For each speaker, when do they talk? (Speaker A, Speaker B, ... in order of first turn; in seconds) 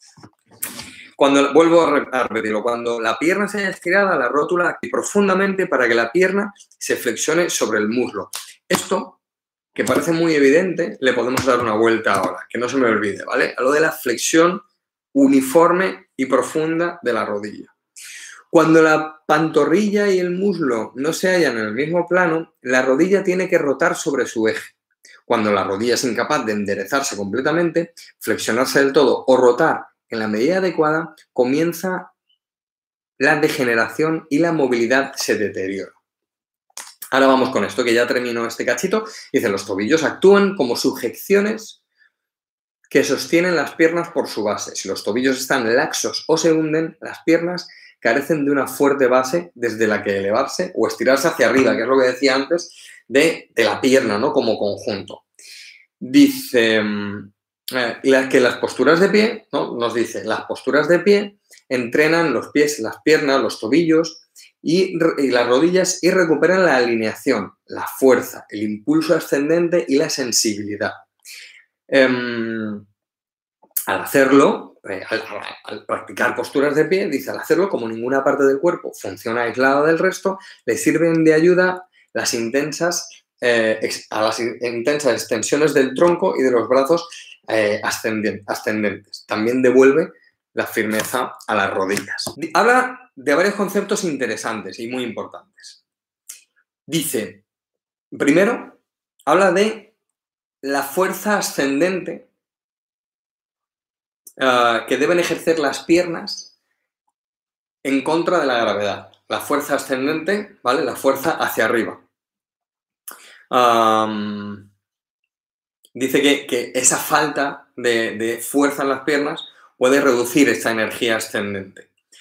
Speaker A: 1.2-9.2, 9.8-17.7, 18.5-24.8, 25.3-32.1, 33.2-36.0, 37.1-41.8, 42.9-55.2, 56.0-71.0, 71.9-72.8, 73.9-95.8, 96.9-97.4, 98.1-99.9, 100.6-102.3, 104.4-106.5, 107.8-112.0, 113.5-114.7, 116.0-121.9